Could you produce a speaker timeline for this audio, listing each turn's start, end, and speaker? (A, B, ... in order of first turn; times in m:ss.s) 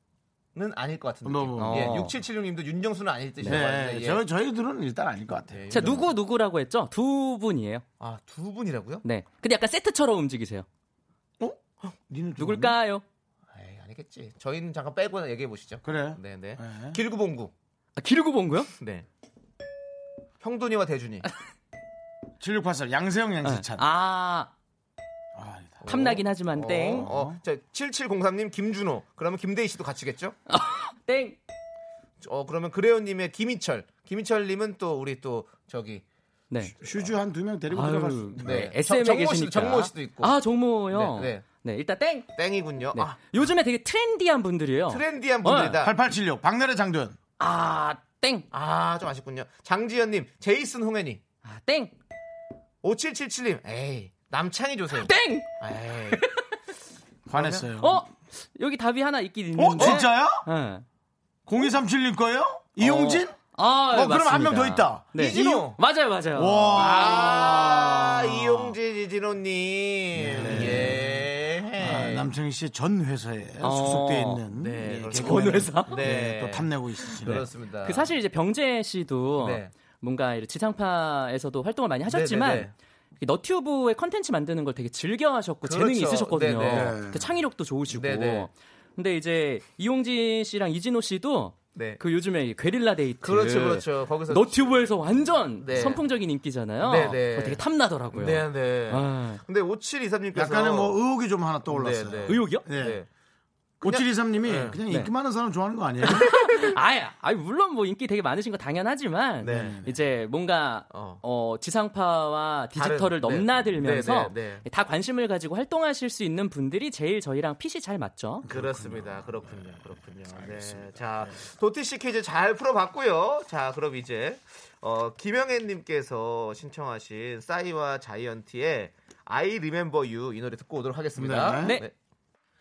0:00.5-0:04.2 A
0:01.2-0:02.0 B
0:01.6-0:02.2 C
0:03.4-0:06.0 B
0:05.5-0:06.1 A
0:05.7-0:07.8 C
0:08.0-0:09.0 A
0:09.0-0:10.6 C
0:11.4-0:12.8 B
0:12.4-0:13.0 C
0:13.5-0:17.5 A
0:15.8-0:17.0 B
0:18.0-0:18.7 C
0:18.8-0:19.0 A
0:20.4-0:21.2 A
0:22.4-0:23.8 B
0:23.4-0:24.5 C
0:25.3-0:25.9 B
0:25.8-0:30.4 A
0:25.8-0:27.1 C
0:26.9-0:27.4 B
0:30.5-0:31.4 C
0:32.2-0:36.0 A
0:36.6-0:38.7 B
0:37.7-0:42.3 C
0:38.4-0:40.4 A
0:40.9-0:41.4 A
0:42.3-0:43.2 A
0:42.9-0:45.8 C
0:44.9-0:45.9 A
0:45.8-0:47.2 B
0:47.4-0:48.4 C
0:48.5-0:51.2 A
0:51.4-0:51.9 C
0:52.8-0:56.2 A
0:54.9-0:55.5 C
0:56.1-0:56.4 C
0:57.3-0:58.0 B
0:57.3-0:57.6 A
0:57.8-1:00.8 C
0:59.5-1:00.4 B
1:01.5-1:05.7 B
1:02.8-1:07.0 C
1:05.1-1:05.8 A
1:06.3-1:08.7 B
1:06.7-1:12.3 A
1:10.2-1:11.2 B
1:10.4-1:10.9 C
1:11.8-1:17.4 B
1:13.6-1:14.4 C
1:14.6-1:18.1 A
1:15.1-1:16.0 C
1:17.2-1:22.7 C
1:19.4-1:19.7 A
1:22.1-1:22.7 A
1:23.2-1:39.4 C
1:25.6-1:27.0 A
1:26.7-1:27.3 B
1:27.9-1:28.5 A
1:31.7-1:32.0 A
1:33.2-1:34.9 A
1:35.6-1:36.0 A
1:36.8-1:41.0 A
1:40.3-1:43.0 B
1:41.6-1:43.1 A
1:42.3-1:42.6 C
1:43.8-1:44.8 A
1:43.8-1:46.6 B
1:46.0-1:58.5 C
1:49.4-1:49.8 A
1:49.5-1:50.0 B
1:50.9-1:51.2 A
1:52.7-1:54.6 A
1:58.4-2:01.4 B
1:58.5-2:11.9 A
2:11.2-2:11.8 B